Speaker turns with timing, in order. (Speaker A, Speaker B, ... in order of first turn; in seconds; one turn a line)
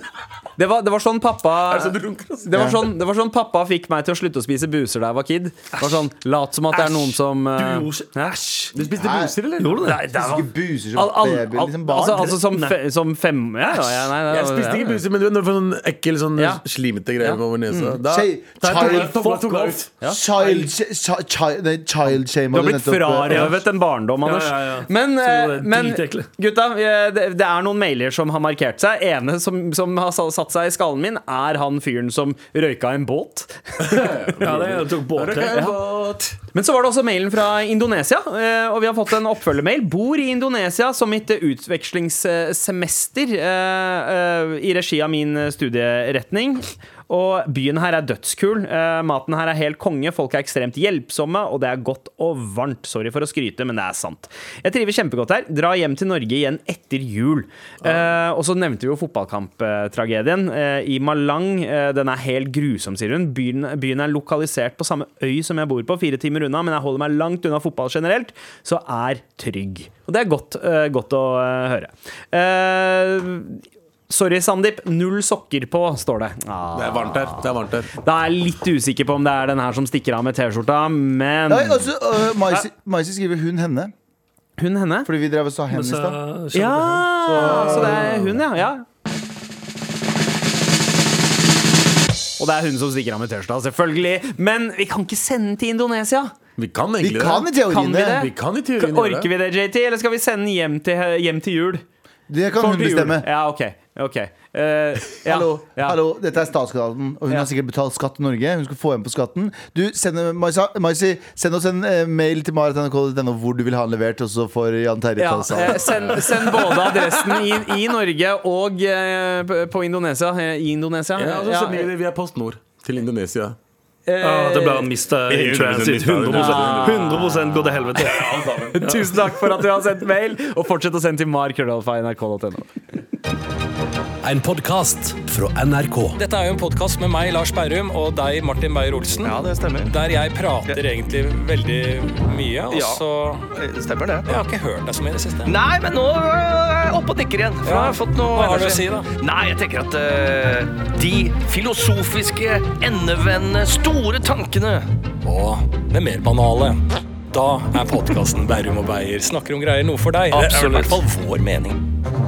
Speaker A: 0.6-8.7
Speaker B: 1.7-2.7
Speaker C: 2.5-2.8
Speaker D: 6.8-7.0
Speaker D: 7.6-8.1
Speaker B: 8.7-10.0
Speaker C: 8.8-9.4
Speaker D: 9.6-10.0
Speaker A: 9.9-15.0
Speaker C: 10.0-12.4
Speaker D: 12.3-12.7
Speaker B: 14.2-19.9
Speaker A: 16.4-16.6
Speaker A: 17.2-18.0
Speaker C: 18.1-19.2
Speaker D: 18.7-19.6
Speaker A: 19.5-20.6
Speaker C: 20.0-23.6
Speaker A: 22.5-34.7
Speaker D: 23.3-23.6
Speaker D: 24.2-26.3
Speaker B: 33.8-36.4
Speaker D: 34.4-35.6
Speaker A: 35.5-81.9
Speaker B: 76.8-77.9
Speaker C: 81.5-83.9
Speaker A: 84.6-85.1
Speaker C: 85.0-86.2
Speaker D: 85.7-87.1
Speaker A: 86.5-88.8
Speaker B: 87.3-88.4
Speaker C: 87.3-88.2
Speaker A: 92.4-96.3
Speaker B: 96.6-97.5
Speaker C: 97.0-98.3
Speaker A: 97.5-101.8
Speaker B: 98.1-99.3
Speaker C: 102.3-103.3
Speaker A: 102.6-106.0
Speaker C: 105.2-116.3
Speaker A: 115.2-121.9
Speaker B: 115.9-117.6
Speaker B: 121.2-123.6
Speaker A: 124.1-124.9
Speaker D: 124.2-128.2
Speaker B: 125.3-127.4
Speaker A: 126.3-132.8
Speaker B: 128.1-128.8
Speaker D: 128.8-129.1
Speaker E: 134.2-143.5
Speaker F: 139.2-139.9
Speaker F: 142.7-144.4
Speaker E: 144.3-145.6
Speaker F: 145.4-154.9
Speaker E: 147.6-149.1
Speaker E: 155.2-156.8
Speaker E: 157.3-161.1
Speaker F: 160.3-161.8